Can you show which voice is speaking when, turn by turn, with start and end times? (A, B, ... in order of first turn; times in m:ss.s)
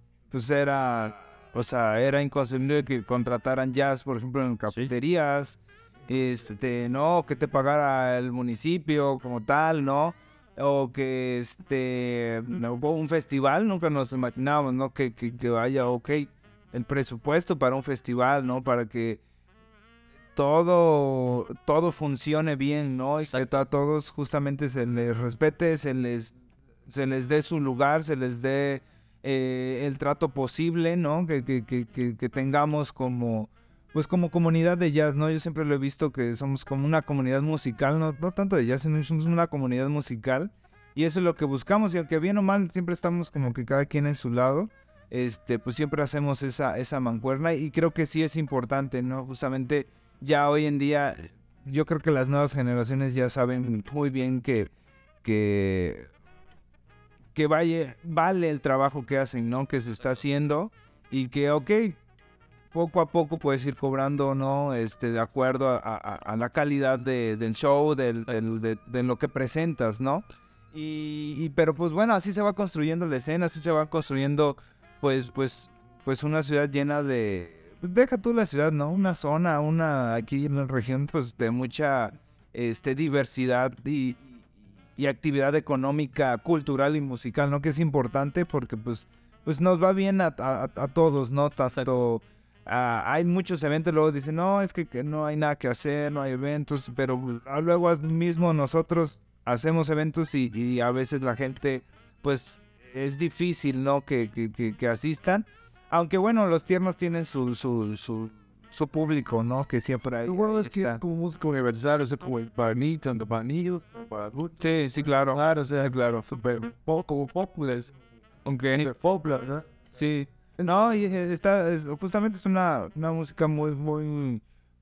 0:00.3-0:19.2 A
0:20.3-0:26.3 A
0:26.8-0:54.7 A
0:55.2-0:56.1 A
0:57.3-1:02.0 A
1:02.7-1:51.0 A
1:50.2-1:57.9 B
1:54.6-1:55.4 A
1:58.4-1:58.9 A
1:58.8-1:59.7 B
1:59.9-2:04.4 A
2:00.6-2:01.0 B